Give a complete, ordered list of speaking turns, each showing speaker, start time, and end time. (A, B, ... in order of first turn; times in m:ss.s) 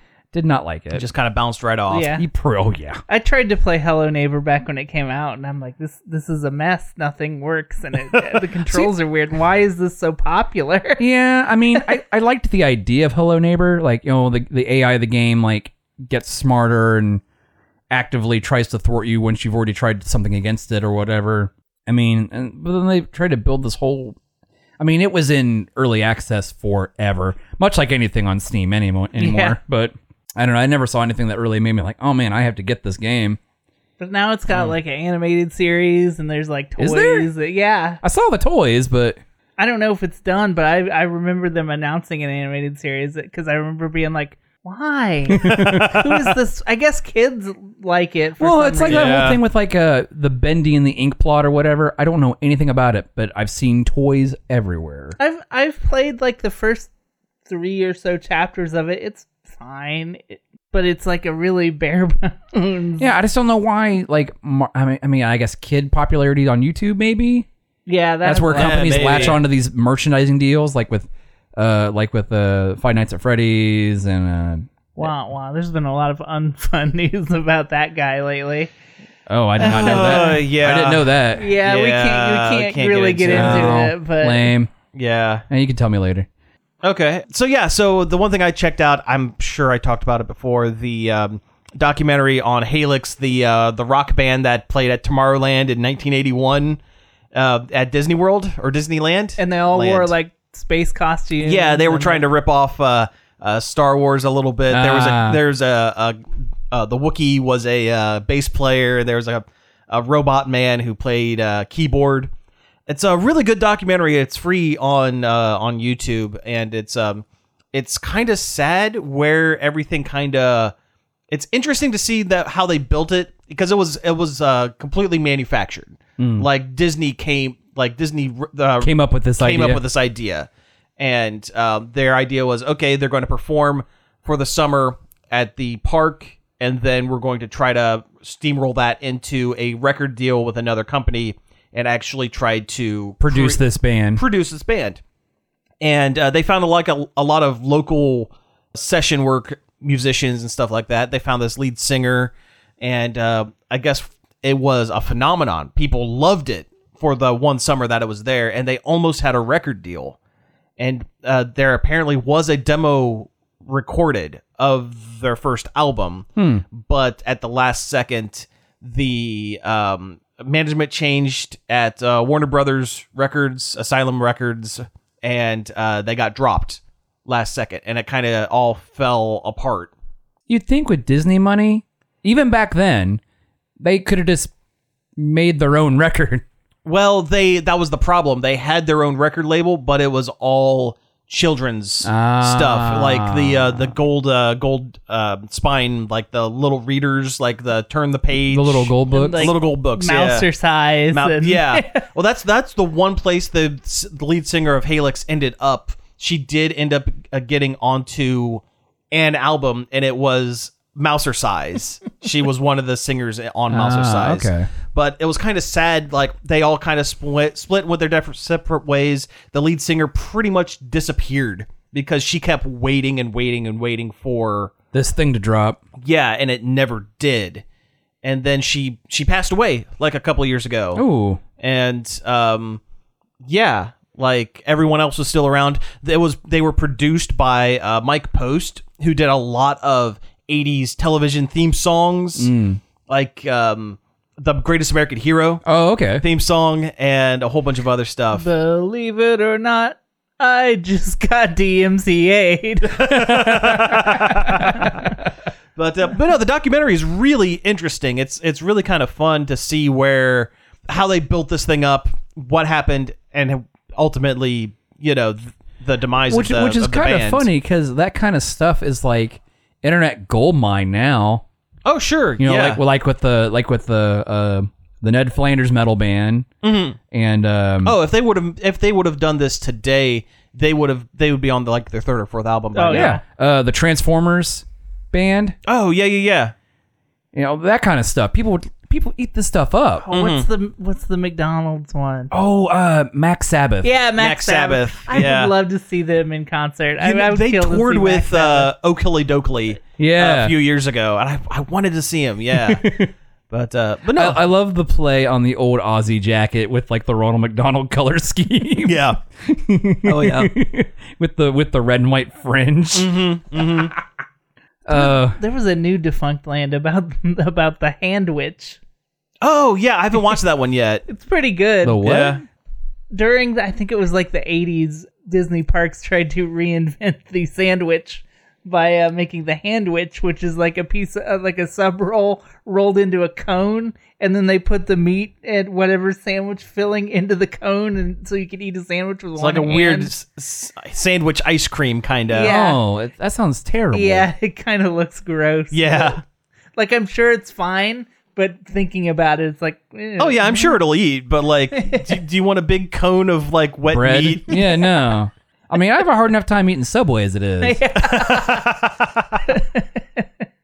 0:00.3-0:01.0 A
0:00.9-0:02.1 B
0:01.9-0:02.2 C
0:02.2-0:03.0 A
0:03.1-0:11.0 C
0:11.0-0:17.2 A
0:17.9-0:24.2 A
0:24.8-0:33.4 A
0:29.2-0:29.6 C
0:34.0-0:38.0 C
0:36.8-0:37.3 A
0:38.0-0:39.2 A
0:39.6-0:49.1 C
0:45.3-0:46.0 A
0:45.4-0:46.2 B
0:48.4-0:55.2 A
0:48.9-0:49.4 B
0:55.2-0:56.9 C
0:57.5-1:03.1 C
1:03.0-1:07.5 A
1:07.9-1:09.4 C
1:08.2-1:15.1 A
1:08.5-1:09.4 B
1:15.0-1:18.7 C
1:19.3-1:21.5 A
1:19.6-1:23.9 B
1:19.6-1:20.4 C
1:21.4-1:24.5 C
1:23.3-1:24.7 A
1:24.9-1:25.4 B
1:25.5-1:26.3 A
1:26.8-1:36.8 B
1:37.3-1:40.1 B
1:39.4-1:42.2 C
1:41.4-1:46.2 B
1:44.7-1:45.4 A
1:46.7-1:52.3 B
1:52.9-2:00.7 B
2:01.3-2:25.0 B
2:06.2-2:06.5 A
2:08.8-2:09.8 A
2:23.2-2:24.2 A
2:25.8-2:40.2 B
2:40.8-2:59.9 B
2:46.4-2:46.6 A
3:00.5-3:03.2 A
3:03.8-3:04.5 A
3:05.2-3:06.4 A
3:06.8-3:20.5 B
3:12.0-3:13.9 A
3:18.5-3:19.5 A
3:19.1-3:22.0 C
3:21.1-3:44.7 B
3:33.7-3:34.7 A
3:44.9-3:45.8 A
3:46.0-3:47.6 B
3:48.2-3:51.0 B
3:51.0-3:51.4 A
3:51.6-3:52.8 B
3:53.4-4:02.5 B
4:02.4-4:02.8 A
4:03.1-4:05.6 B
4:05.6-4:06.2 A
4:06.2-4:08.5 B
4:08.3-4:13.2 C
4:12.9-4:15.0 B
4:13.1-4:15.1 A
4:15.8-4:27.5 B
4:26.3-4:31.4 A
4:31.8-4:32.8 B
4:32.4-4:36.5 A
4:36.6-4:37.0 B
4:37.1-4:38.0 A
4:37.8-4:43.2 B
4:42.8-4:43.2 C
4:42.9-4:45.6 A
4:45.7-4:46.5 B
4:47.3-4:50.1 A
4:50.1-4:52.3 C
4:50.1-4:50.5 B
4:52.3-4:53.9 A
4:53.8-4:58.7 C
4:54.2-4:55.5 B
4:57.0-5:02.9 B
5:00.0-5:00.5 A
5:02.5-5:03.1 A
5:03.5-5:04.4 B
5:04.1-5:13.1 A
5:08.8-5:09.2 B
5:10.0-5:10.5 B
5:12.9-5:14.0 B
5:14.9-5:15.4 A
5:14.9-5:18.8 C
5:19.4-5:21.0 B
5:21.1-5:22.1 C
5:21.8-5:22.4 A
5:22.0-5:22.4 B
5:23.1-5:40.1 C
5:39.4-5:42.5 B
5:42.3-5:42.8 C
5:42.4-5:44.3 A
5:43.9-5:46.2 C
5:45.7-5:46.2 B
5:46.8-5:50.8 C
5:50.2-5:54.6 B
5:51.8-5:52.2 C
5:53.9-5:57.8 A
5:57.6-5:58.7 C
5:58.0-5:59.1 B
5:59.5-6:00.3 C